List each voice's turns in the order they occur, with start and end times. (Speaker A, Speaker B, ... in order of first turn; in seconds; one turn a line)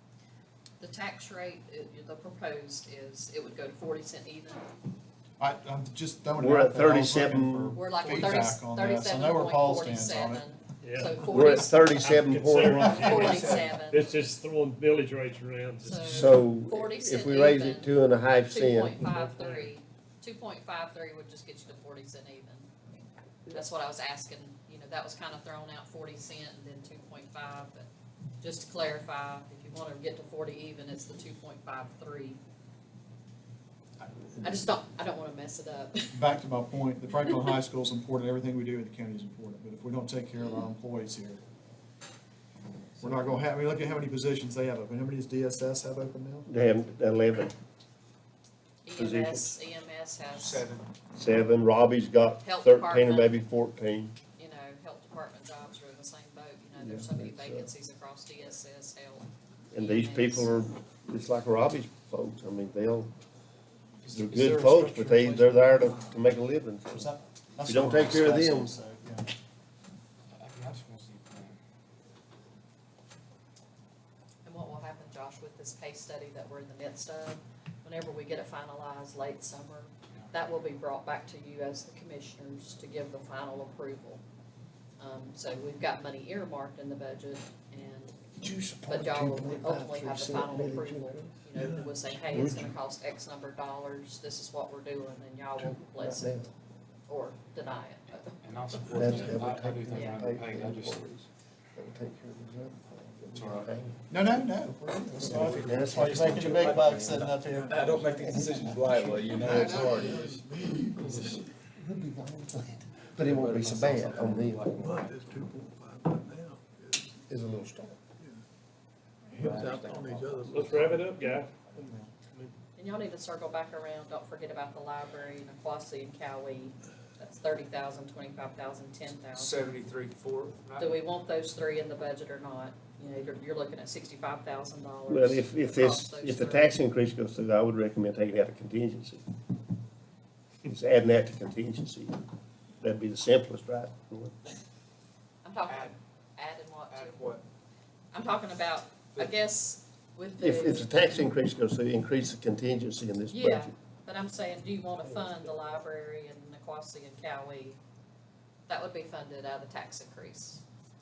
Speaker A: 0.8-4.8
Speaker B: 5.4-10.4
Speaker C: 6.4-7.8
Speaker A: 7.7-11.9
Speaker D: 10.8-16.3
Speaker C: 11.2-13.4
Speaker B: 12.7-13.2
Speaker A: 12.8-14.0
Speaker A: 15.8-22.7
Speaker C: 16.0-19.1
Speaker A: 23.5-27.9
Speaker A: 28.4-32.4
Speaker B: 34.0-34.7
Speaker A: 34.4-36.2
Speaker B: 36.1-41.4
Speaker A: 37.2-37.5
Speaker B: 43.0-46.5
Speaker C: 46.5-47.5
Speaker A: 48.8-50.6
Speaker C: 49.0-49.5
Speaker C: 51.1-54.1
Speaker A: 52.4-53.4
Speaker A: 54.3-60.6
Speaker C: 56.8-57.7
Speaker C: 59.7-63.1
Speaker E: 64.0-66.0
Speaker C: 64.1-67.1
Speaker B: 66.9-69.3
Speaker C: 67.6-68.7
Speaker E: 70.3-71.6
Speaker A: 74.4-84.2
Speaker A: 85.0-96.5
Speaker C: 88.4-91.4
Speaker F: 91.5-92.7
Speaker C: 92.3-92.7
Speaker C: 95.7-96.5
Speaker A: 97.1-98.4
Speaker E: 98.4-101.0
Speaker C: 98.9-107.3
Speaker A: 99.9-100.2
Speaker E: 103.3-103.7
Speaker B: 104.1-108.2
Speaker E: 105.3-110.4
Speaker C: 108.2-109.9
Speaker B: 109.3-110.4
Speaker F: 109.7-111.3
Speaker C: 110.6-114.7
Speaker E: 111.0-111.4
Speaker E: 113.2-115.1
Speaker F: 114.8-117.2
Speaker C: 117.3-118.0
Speaker F: 119.3-120.8
Speaker E: 119.4-121.0
Speaker D: 120.5-122.5
Speaker A: 122.8-129.6
Speaker G: 129.4-131.0
Speaker A: 130.8-136.8
Speaker C: 135.1-139.2
Speaker C: 140.6-142.2
Speaker C: 142.8-144.3
Speaker A: 145.4-147.2
Speaker G: 146.9-147.4
Speaker A: 148.1-150.9
Speaker C: 150.4-153.7
Speaker A: 153.3-157.8
Speaker A: 158.7-160.6